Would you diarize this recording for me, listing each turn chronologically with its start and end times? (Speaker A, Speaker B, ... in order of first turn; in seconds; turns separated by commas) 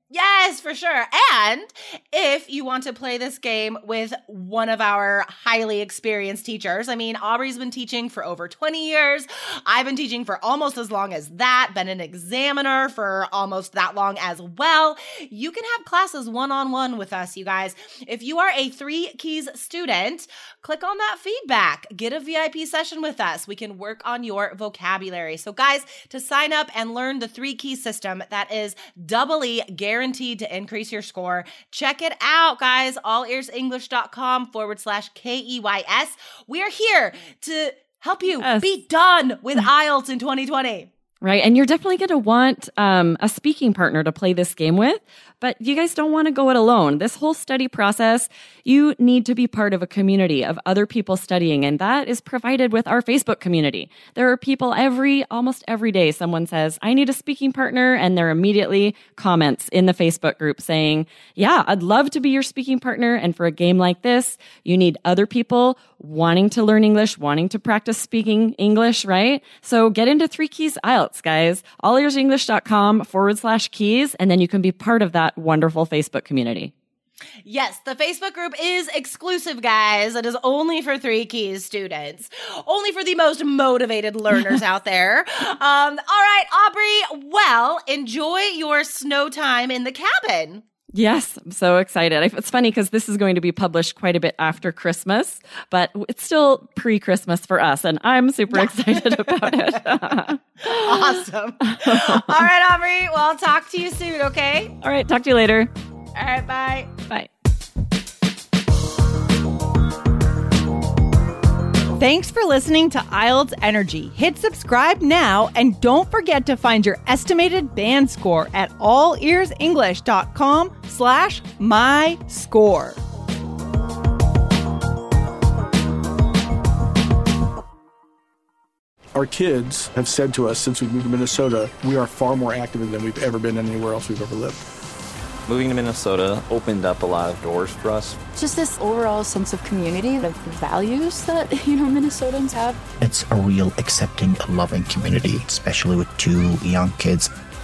Speaker A: 0.1-40.9, Speaker B: 38.4-38.7, Speaker B: 41.2-76.7, Speaker A: 77.5-90.6, Speaker B: 91.0-102.5, Speaker A: 98.5-99.3, Speaker A: 100.7-104.7, Speaker B: 104.8-105.7, Speaker A: 106.2-106.9, Speaker C: 112.0-123.0, Speaker D: 129.1-134.6, Speaker E: 135.5-138.2, Speaker F: 138.4-142.8, Speaker G: 143.0-147.3